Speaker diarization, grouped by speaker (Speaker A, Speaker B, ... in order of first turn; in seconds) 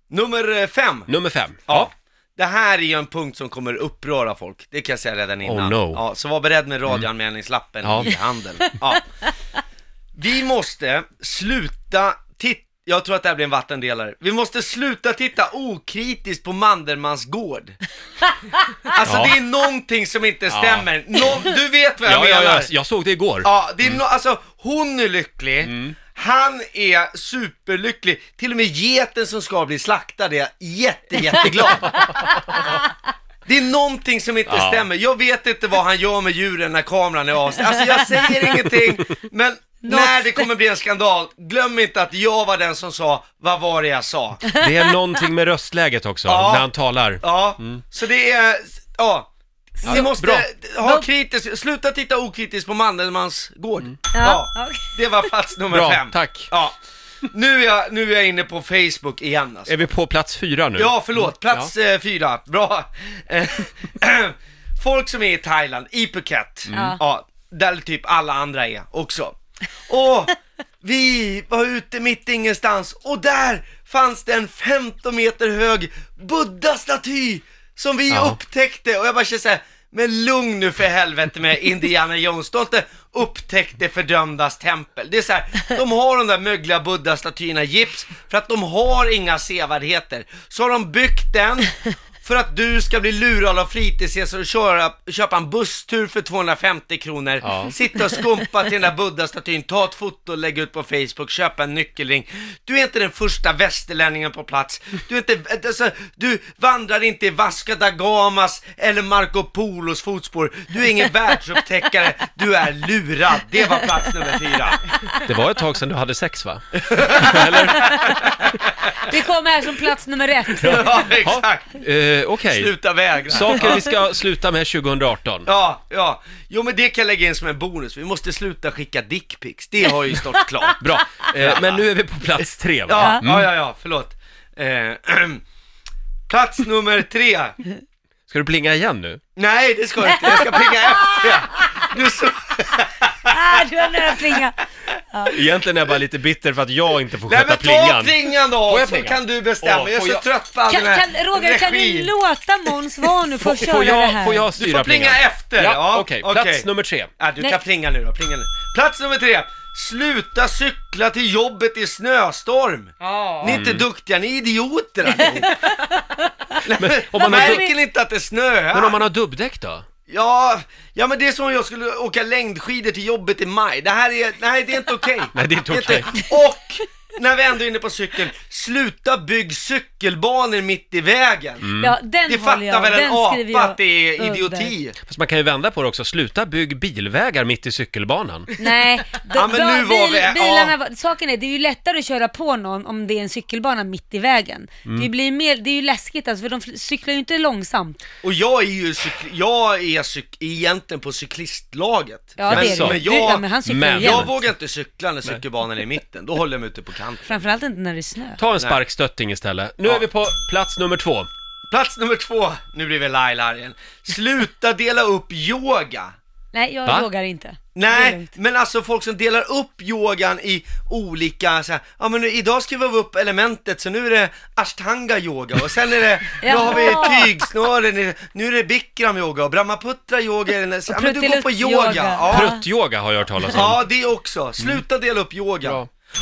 Speaker A: 0.1-1.1, 1.7-9.1, 10.2-17.8, 18.9-22.7, 23.4-32.1, 33.5-44.4, 46.2-46.7, 47.2-49.3, 49.8-56.8, 57.3-59.7, 60.8-69.3, 69.9-114.8, 116.9-118.5, 120.6-121.7, 122.5-123.9, 125.5-131.9, 132.9-135.4, 136.3-137.6, 139.3-143.3, 147.3-152.1, 154.6-156.7, 157.2-165.6, 166.6-169.0, 170.1-181.7, 182.3-184.9, 189.3-190.7, 198.2-207.4, 211.7-216.1, 217.7-232.5, 233.5-235.8
Speaker B: 1.1-1.9, 5.4-6.0, 7.8-8.1, 19.0-19.3, 20.5-20.9, 22.0-24.0, 25.6-25.9, 31.9-32.4, 34.5-34.9, 44.5-47.8, 49.9-50.5, 55.7-56.5, 59.7-61.7, 66.7-67.0, 78.1-78.4, 97.4-97.7, 115.2-118.2, 120.6-125.5, 130.8-133.5, 138.3-139.2, 145.3-150.2, 153.4-157.1, 163.4-163.8, 166.8-167.7, 168.7-169.8, 175.3-176.1, 181.6-181.9, 185.1-188.5, 202.5-203.0, 203.7-204.3, 208.4-211.3, 232.3-233.8
Speaker C: 37.7-38.6, 39.8-40.5, 44.4-44.9, 49.8-50.0, 54.1-54.9, 66.7-67.0, 117.8-118.2, 118.9-120.9, 133.0-133.2, 140.0-141.9, 143.3-145.3, 150.7-154.5, 163.0-163.6, 165.1-166.6, 167.1-167.7, 181.8-184.7, 188.6-198.0, 202.4-204.3, 207.2-208.4, 216.5-218.3, 226.4-227.3, 230.9-232.6